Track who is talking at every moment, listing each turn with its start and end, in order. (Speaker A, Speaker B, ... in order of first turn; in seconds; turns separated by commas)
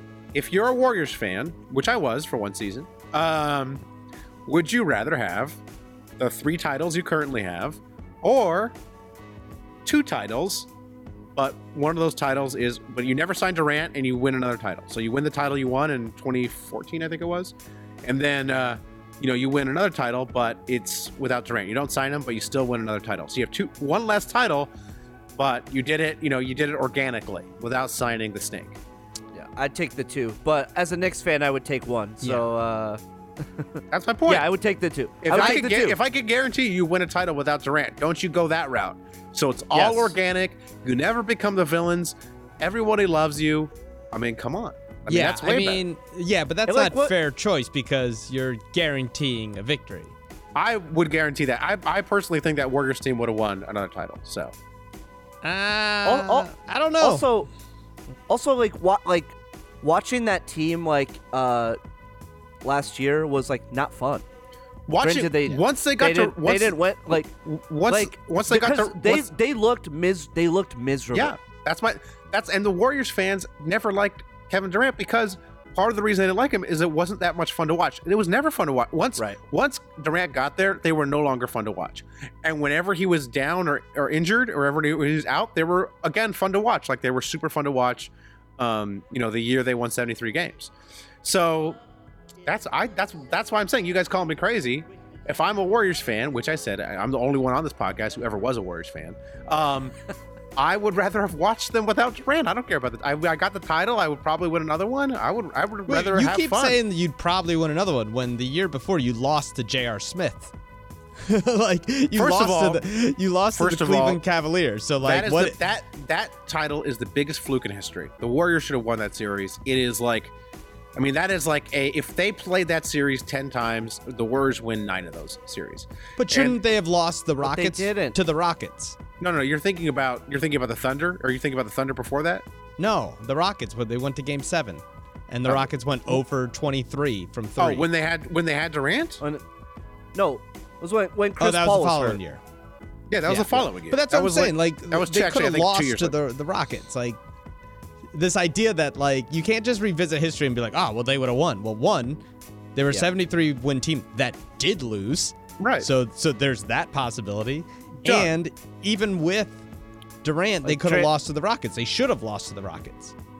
Speaker A: 0.3-3.8, Speaker A: 4.5-5.6, Speaker A: 6.2-8.7, Speaker A: 9.8-10.7, Speaker A: 11.3-24.7, Speaker A: 25.4-28.8, Speaker B: 29.3-33.0, Speaker B: 33.5-36.0, Speaker A: 33.9-34.5, Speaker A: 35.2-45.8, Speaker B: 39.7-40.1, Speaker C: 45.1-50.1, Speaker B: 46.7-47.1, Speaker A: 50.5-54.5, Speaker C: 55.4-57.2, Speaker B: 56.0-57.5, Speaker B: 58.3-61.8, Speaker B: 62.6-64.2, Speaker A: 64.9-69.3, Speaker B: 65.0-67.3, Speaker B: 67.9-71.4, Speaker A: 71.1-90.7, Speaker A: 91.2-91.8, Speaker A: 92.4-100.0, Speaker A: 100.5-106.8, Speaker C: 105.9-110.5, Speaker C: 111.2-115.6, Speaker A: 112.1-112.8, Speaker A: 113.5-114.2, Speaker A: 115.0-120.3, Speaker A: 121.0-126.5, Speaker C: 126.2-129.0, Speaker B: 127.4-128.2, Speaker A: 129.2-132.4, Speaker C: 132.8-137.9, Speaker A: 135.5-136.2, Speaker A: 137.6-139.2, Speaker B: 140.1-142.2, Speaker C: 141.4-142.4, Speaker A: 143.1-146.1, Speaker C: 143.2-147.2, Speaker C: 148.1-152.2, Speaker C: 152.7-159.6, Speaker A: 155.6-155.9, Speaker A: 158.0-158.3, Speaker C: 160.2-163.1, Speaker B: 160.6-161.1